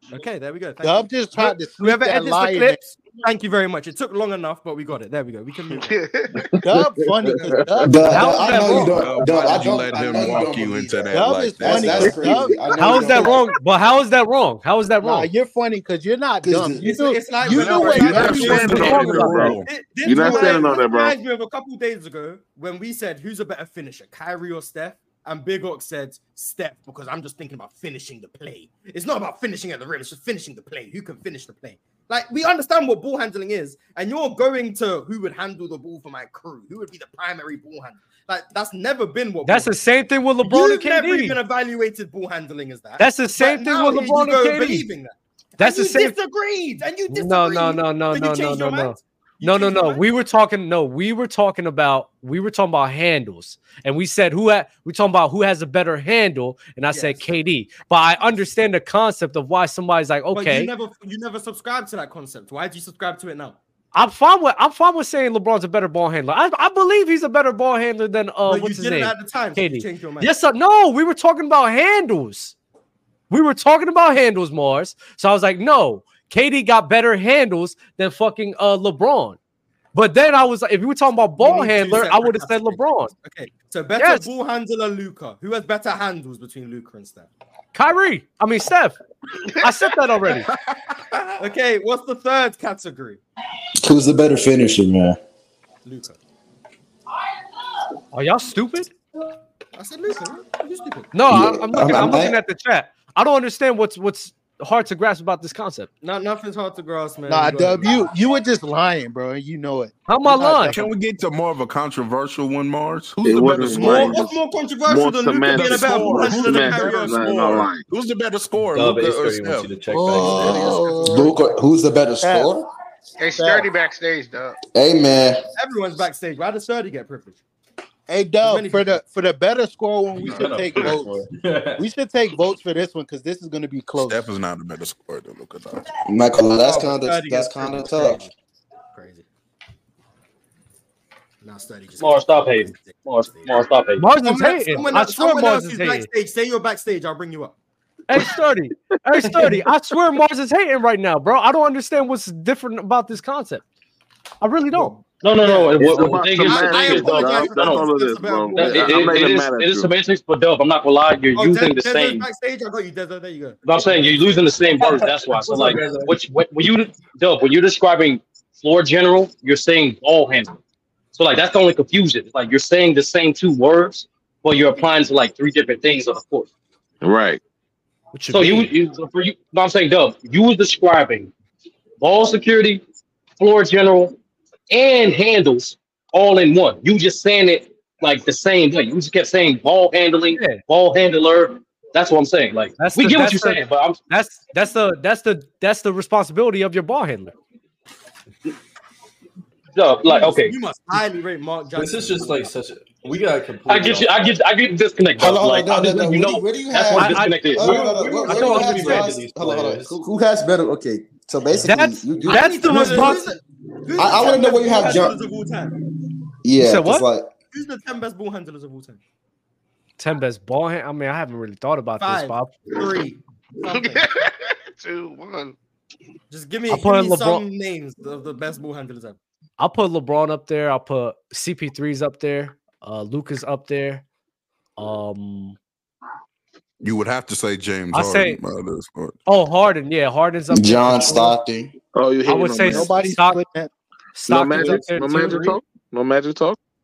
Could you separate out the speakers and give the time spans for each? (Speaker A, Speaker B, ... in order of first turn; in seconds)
Speaker A: 0.1-5.9, 16.5-39.8, 40.4-50.0, 56.9-57.3, 60.3-63.6, 68.5-70.3, 81.4-87.3, 91.4-93.2, 95.8-96.2, 99.7-101.1, 106.0-108.1, 113.7-117.2, 125.5-127.4, 128.4-129.0, 136.6-138.3, 138.9-139.3, 141.4-143.6, 144.2-147.6, 154.7-159.2, 161.4-164.5, 200.1-202.5, 212.2-215.8, 217.5-219.0, 222.0-224.1, 226.3-229.2
Speaker B: 0.8-2.8, 6.6-9.1, 11.1-13.3, 15.0-19.1, 20.2-20.6, 107.3-110.9, 119.9-121.5, 122.2-122.5, 123.3-123.7, 128.1-134.3, 242.7-243.7
Speaker C: 5.8-6.5, 123.2-124.6, 223.7-225.6
Speaker D: 7.2-8.0, 18.2-21.2, 113.2-117.9, 155.8-159.9, 177.0-177.4, 241.9-242.9, 244.2-246.6
Speaker E: 7.9-13.4, 16.5-16.8, 93.8-95.2, 101.3-102.4, 121.0-122.7, 124.7-125.4, 136.1-138.3, 205.2-213.1, 214.0-215.2, 216.4-217.3, 240.5-241.8
Speaker F: 8.1-8.9, 12.8-15.3, 18.4-19.5, 39.5-41.4, 43.0-44.9, 45.6-46.1, 47.1-60.7, 63.9-72.5, 73.3-79.4, 79.9-83.1, 84.0-84.3, 87.7-89.0, 89.6-90.5, 98.1-98.9, 101.1-105.9, 110.1-110.8, 144.0-146.1, 148.1-153.6, 154.4-155.0, 178.1-178.7, 190.3-190.6, 192.8-197.3, 206.9-207.6, 208.2-209.1, 211.6-213.3, 216.6-217.1, 220.0-222.6, 226.7-227.4, 229.6-234.0, 234.8-235.6, 237.9-238.4, 239.3-241.4, 242.2-243.4, 244.2-245.6
Speaker G: 8.8-12.3, 17.5-19.7, 110.7-114.2, 115.5-121.0, 134.0-135.9, 236.8-239.2
Speaker H: 118.6-121.1, 130.2-131.8, 164.8-166.3, 201.8-204.4, 207.6-210.0
Speaker I: 142.0-144.1, 155.2-157.9, 158.5-162.3, 163.7-170.6, 171.1-176.5, 178.3-181.3, 182.0-182.8, 183.4-184.2, 184.7-194.0, 199.8-200.6, 203.7-207.8